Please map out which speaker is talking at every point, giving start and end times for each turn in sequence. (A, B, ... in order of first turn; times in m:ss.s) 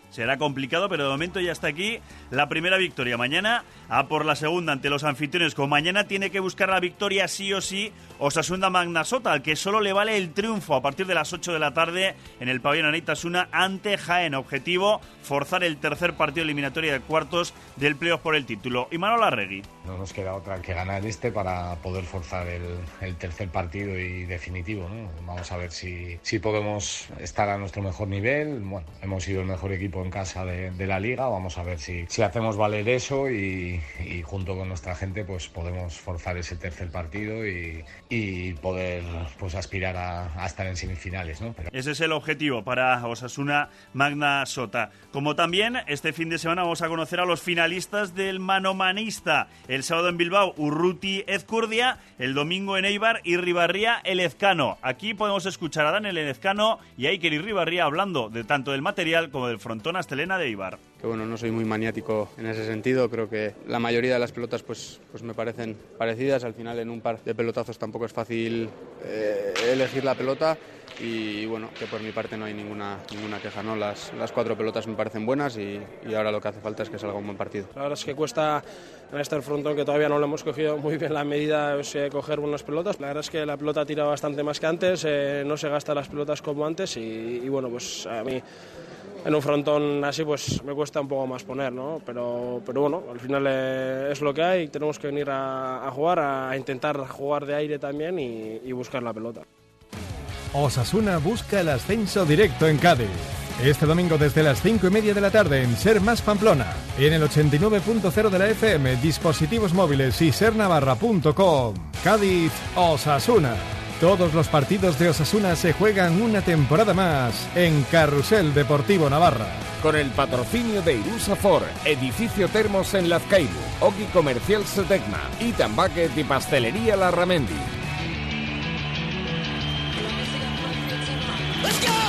0:00.1-0:19.6 A
0:19.8-0:41.7 B
0:41.7-1:00.8 A
1:01.0-1:17.7 C
1:17.7-1:28.4 D
1:29.2-1:39.4 D
1:40.5-1:59.6 E
1:59.8-2:07.6 F